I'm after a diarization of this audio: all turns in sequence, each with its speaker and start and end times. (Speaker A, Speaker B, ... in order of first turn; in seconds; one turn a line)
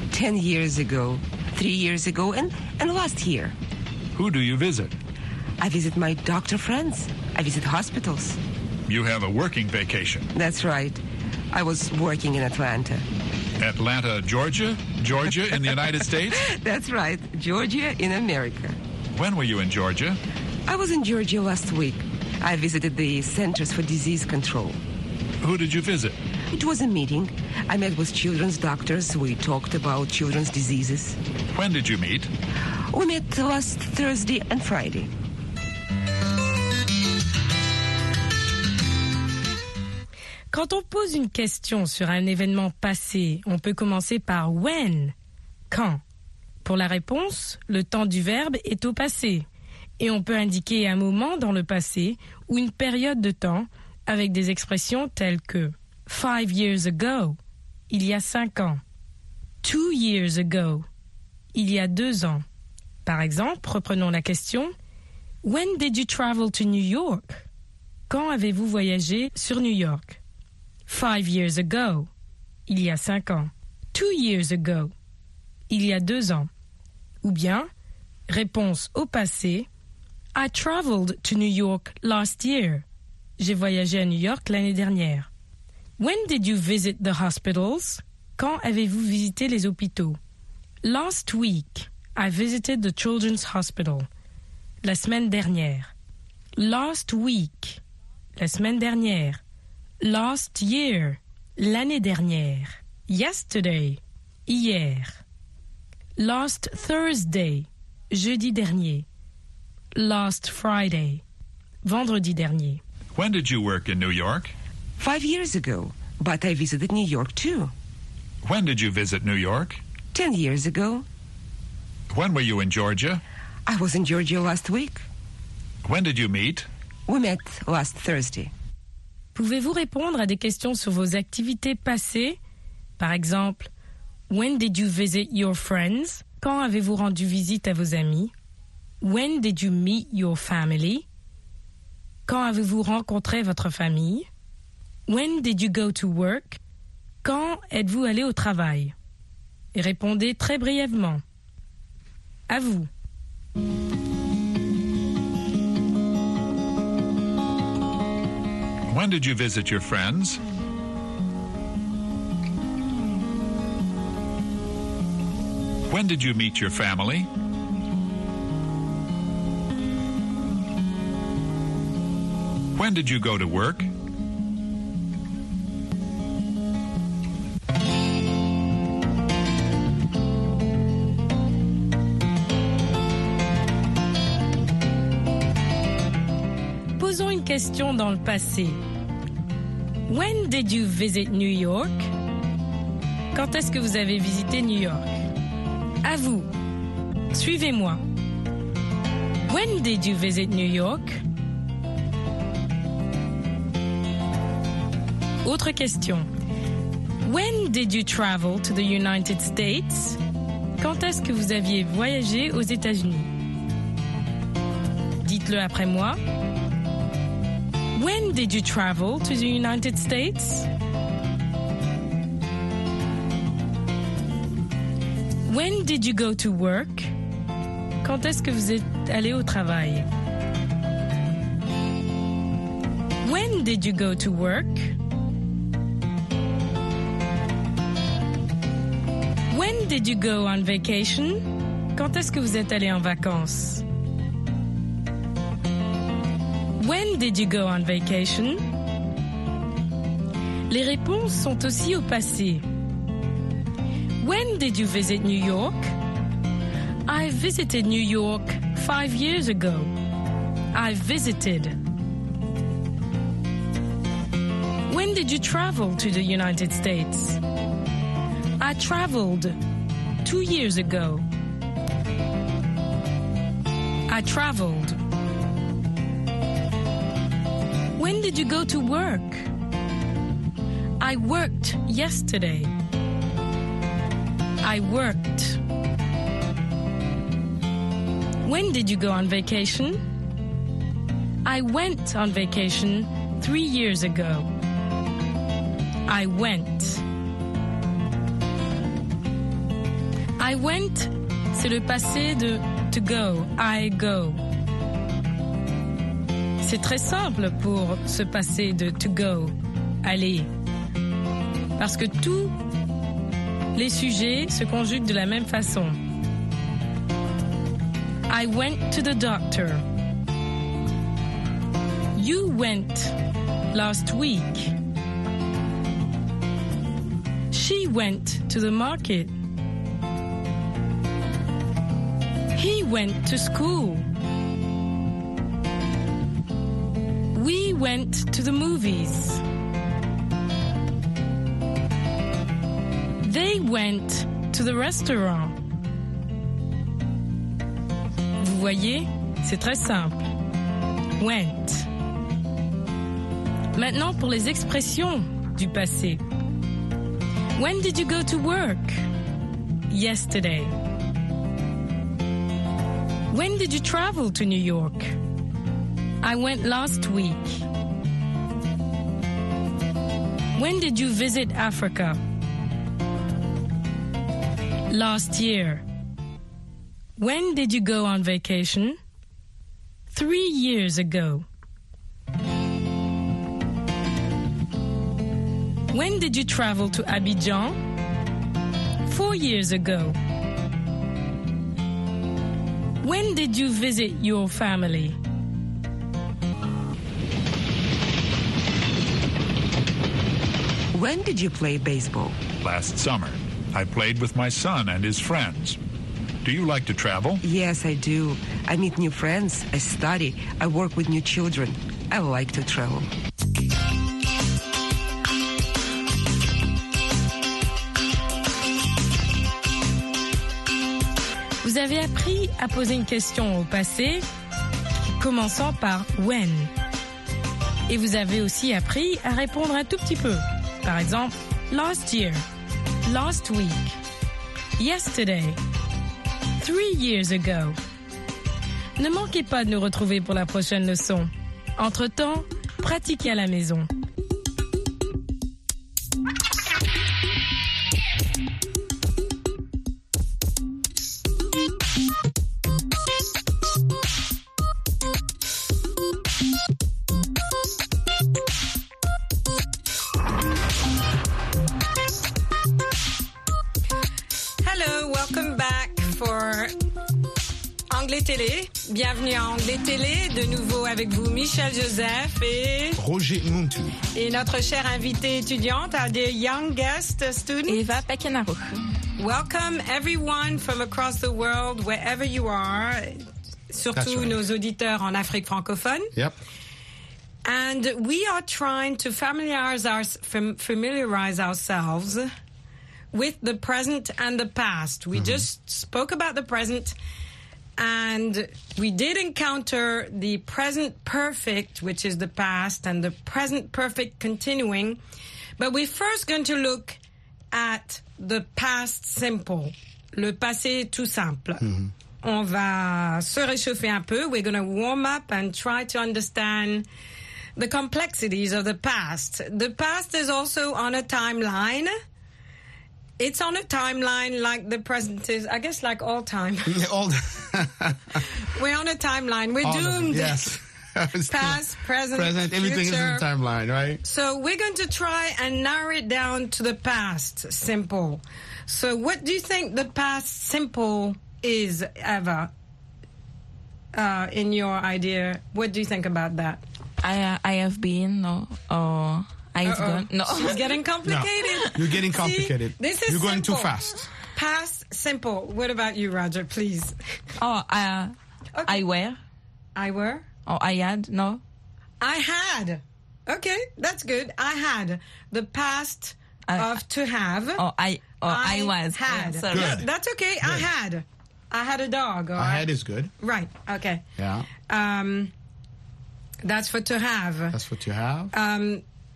Speaker A: 0.1-3.5
Speaker B: 4.2-4.9
Speaker A: 5.6-8.4
Speaker B: 8.9-10.3
Speaker A: 10.3-11.0
Speaker A: 11.5-13.1
Speaker B: 13.6-16.4
Speaker A: 16.3-18.8
Speaker B: 19.2-20.2
Speaker A: 20.7-24.8
Speaker B: 25.4-26.2
Speaker A: 26.5-31.2
Speaker B: 31.6-32.3
Speaker A: 32.9-35.1
Speaker C: 40.5-45.1
Speaker C: 45.7-46.0
Speaker C: 46.6-49.5
Speaker C: 50.0-57.4
Speaker C: 57.9-58.8
Speaker C: 59.6-60.9
Speaker C: 61.5-62.5
Speaker C: 63.0-64.7
Speaker C: 65.4-67.5
Speaker C: 68.1-70.2
Speaker C: 70.9-72.1
Speaker C: 72.7-74.9
Speaker C: 75.7-76.5
Speaker C: 77.2-77.7
Speaker C: 78.3-79.7
Speaker C: 80.4-82.8
Speaker C: 83.4-85.3
Speaker C: 86.0-90.2
Speaker C: 90.8-94.1
Speaker C: 94.8-95.9
Speaker C: 96.6-97.8
Speaker C: 98.4-99.4
Speaker C: 100.0-105.2
Speaker C: 106.2-109.1
Speaker C: 110.0-111.2
Speaker C: 111.8-112.8
Speaker B: 113.2-114.5
Speaker A: 115.0-117.7
Speaker B: 118.4-119.8
Speaker A: 120.1-121.0
Speaker B: 122.1-123.2
Speaker A: 123.7-125.0
Speaker B: 125.8-126.7
Speaker A: 127.1-128.5
Speaker C: 129.3-132.4
Speaker C: 133.0-133.7
Speaker C: 134.3-138.3
Speaker C: 139.0-141.1
Speaker C: 142.3-144.3
Speaker C: 145.1-146.6
Speaker C: 147.2-148.9
Speaker C: 149.8-151.2
Speaker C: 152.5-152.9
Speaker B: 158.9-160.4
Speaker B: 165.9-167.3
Speaker B: 172.8-173.9
Speaker C: 187.0-188.8
Speaker C: 190.1-192.1
Speaker C: 193.3-195.1
Speaker C: 196.0-196.5
Speaker C: 197.3-198.0
Speaker C: 199.5-201.2
Speaker C: 205.4-206.3
Speaker C: 207.2-210.2
Speaker C: 210.8-213.3
Speaker C: 215.2-216.2
Speaker C: 217.9-220.7
Speaker C: 225.4-227.1
Speaker C: 228.0-230.1
Speaker C: 233.2-234.9
Speaker C: 239.5-243.8
Speaker C: 246.8-248.6
Speaker C: 250.7-252.6
Speaker C: 254.2-255.9
Speaker C: 257.1-259.9
Speaker C: 260.7-261.8
Speaker C: 264.9-267.4
Speaker C: 268.6-269.6
Speaker C: 270.2-271.2
Speaker C: 274.1-275.0
Speaker C: 278.0-279.5
Speaker C: 281.0-282.7
Speaker C: 284.6-285.6
Speaker C: 288.4-290.0
Speaker C: 291.4-294.5
Speaker C: 296.1-297.0
Speaker C: 300.4-304.4
Speaker C: 306.6-310.5
Speaker C: 311.8-312.6
Speaker C: 313.8-316.0
Speaker C: 318.3-319.8
Speaker C: 322.2-323.2
Speaker C: 323.7-324.8
Speaker C: 327.5-329.3
Speaker C: 332.6-334.1
Speaker C: 337.3-339.4
Speaker C: 343.2-345.6
Speaker C: 348.4-350.2
Speaker C: 351.2-351.9
Speaker C: 353.8-356.2
Speaker C: 357.6-359.0
Speaker C: 359.9-360.7
Speaker C: 363.3-365.1
Speaker C: 366.2-367.6
Speaker C: 370.6-372.2
Speaker C: 374.9-375.8
Speaker C: 377.2-379.0
Speaker C: 380.1-381.4
Speaker C: 385.9-387.8
Speaker C: 389.1-390.2
Speaker C: 393.0-395.2
Speaker A: 400.9-402.4
Speaker B: 402.6-405.8
Speaker B: 406.4-407.4
Speaker A: 407.4-413.1
Speaker C: 421.6-424.2
Speaker C: 425.2-426.7
Speaker C: 427.9-432.4
Speaker C: 433.1-434.0
Speaker C: 434.8-435.6
Speaker C: 436.6-437.8
Speaker C: 439.0-443.9
Speaker D: 464.6-466.7
Speaker D: 467.9-473.0
Speaker E: 473.0-474.0
Speaker D: 474.1-478.0
Speaker F: 477.7-478.9
Speaker D: 479.2-486.1
Speaker E: 483.9-484.4
Speaker D: 487.4-492.3
Speaker D: 493.1-497.0
Speaker E: 495.1-495.5
Speaker D: 497.8-505.0
Speaker D: 505.6-507.0
Speaker D: 507.5-511.7
Speaker E: 511.6-511.9
Speaker D: 512.2-516.9
Speaker D: 517.6-521.9
Speaker D: 523.2-526.8
Speaker E: 526.7-528.3
Speaker D: 528.4-530.5
Speaker E: 529.6-534.0
Speaker D: 531.3-533.3
Speaker D: 534.0-542.5
Speaker D: 543.9-546.6
Speaker F: 547.0-550.7
Speaker D: 549.6-557.0
Speaker E: 551.0-554.1
Speaker F: 557.4-558.1
Speaker D: 558.5-558.9
Speaker F: 558.7-559.2
Speaker D: 559.8-560.3
Speaker F: 560.5-561.4
Speaker D: 562.0-567.6
Speaker F: 566.5-566.8
Speaker F: 567.6-569.9
Speaker D: 568.3-572.7
Speaker E: 569.5-569.9
Speaker E: 570.4-570.7
Speaker E: 572.4-573.1
Speaker D: 573.2-574.1
Speaker E: 574.2-574.5
Speaker D: 574.7-575.3
Speaker D: 576.4-577.6
Speaker E: 577.5-578.3
Speaker D: 578.3-578.8